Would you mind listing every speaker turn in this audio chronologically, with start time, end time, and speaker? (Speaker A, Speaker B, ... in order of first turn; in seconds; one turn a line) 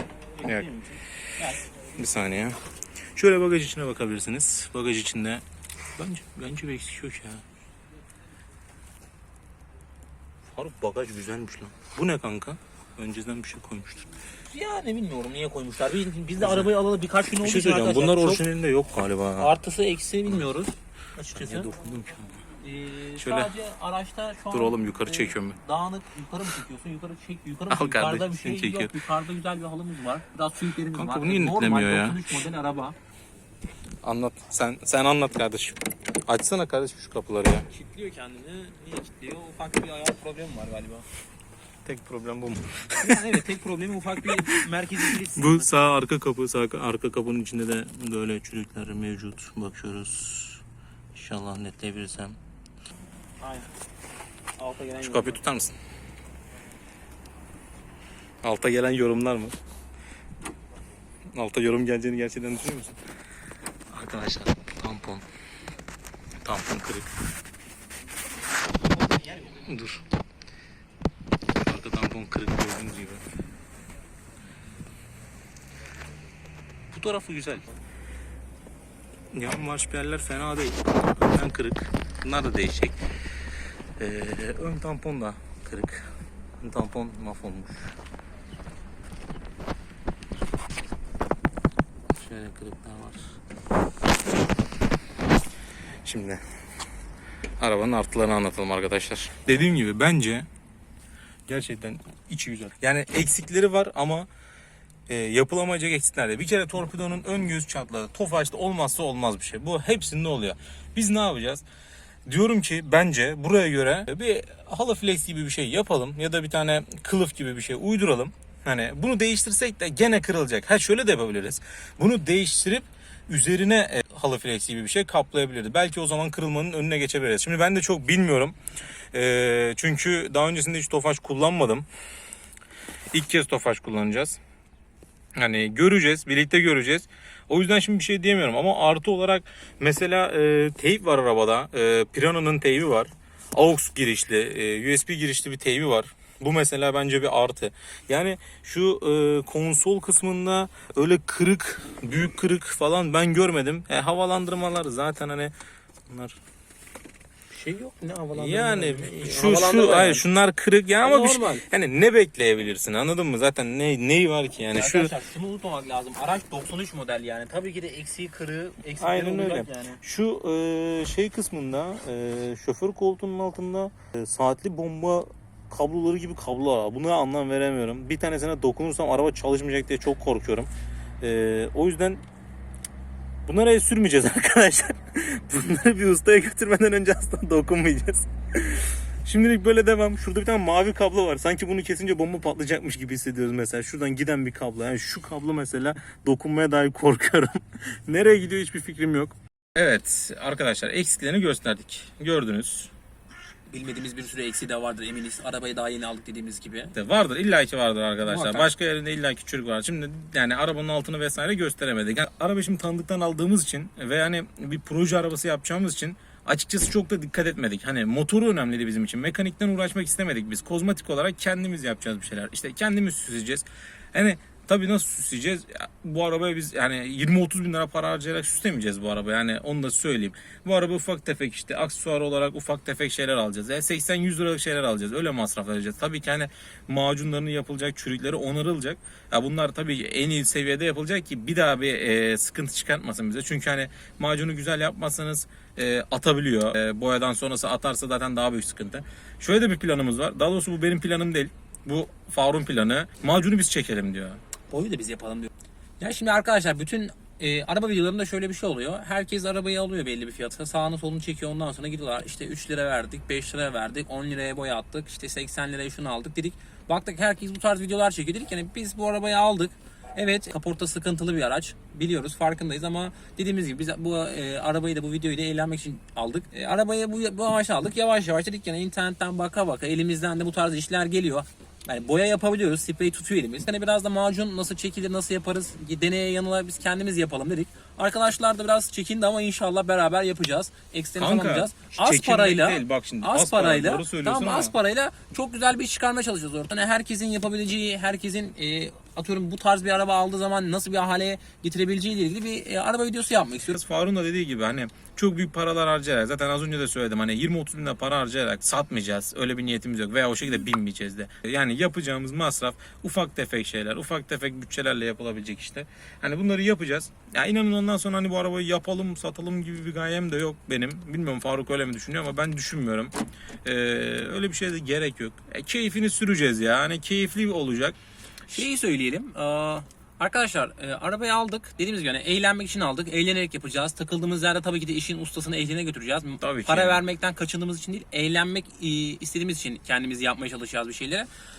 Speaker A: 0.4-1.6
Speaker B: 1.9-2.6
Speaker B: 3.1-5.4
Speaker B: 6.0-7.4
Speaker B: 10.5-14.1
Speaker A: 14.4-18.4
Speaker B: 16.4-16.7
Speaker B: 17.4-19.5
Speaker A: 19.4-21.7
Speaker B: 21.3-22.3
Speaker A: 22.6-33.0
Speaker B: 23.2-23.5
Speaker B: 24.5-25.6
Speaker B: 27.7-28.9
Speaker B: 30.9-32.4
Speaker B: 34.0-37.7
Speaker A: 37.7-41.0
Speaker B: 41.8-43.2
Speaker A: 43.0-45.7
Speaker B: 45.4-50.6
Speaker B: 51.1-52.4
Speaker A: 53.4-53.7
Speaker A: 54.6-55.4
Speaker B: 55.0-55.8
Speaker B: 58.4-59.5
Speaker B: 61.3-63.0
Speaker B: 63.9-65.2
Speaker B: 66.4-67.1
Speaker B: 69.6-70.0
Speaker B: 71.6-73.2
Speaker B: 76.9-77.7
Speaker B: 79.3-83.0
Speaker B: 84.0-88.0
Speaker B: 92.1-93.2
Speaker B: 96.0-96.4
Speaker B: 97.6-100.5
Speaker B: 101.5-104.3
Speaker B: 105.1-111.6
Speaker B: 112.3-128.6
Speaker B: 129.1-131.8
Speaker B: 133.1-134.4
Speaker B: 135.4-155.5
Speaker B: 156.1-156.4
Speaker A: 157.5-160.2
Speaker B: 158.3-165.1
Speaker A: 161.0-161.6
Speaker A: 164.7-170.0
Speaker B: 169.0-180.7
Speaker B: 181.2-182.2
Speaker B: 183.4-202.9
Speaker A: 203.7-206.9
Speaker B: 206.9-254.4
Speaker A: 208.3-208.7
Speaker A: 254.7-303.8
Speaker B: 291.2-294.7
Speaker B: 303.7-323.1
Speaker B: 323.6-327.9
Speaker A: 328.5-341.3
Speaker B: 336.4-337.0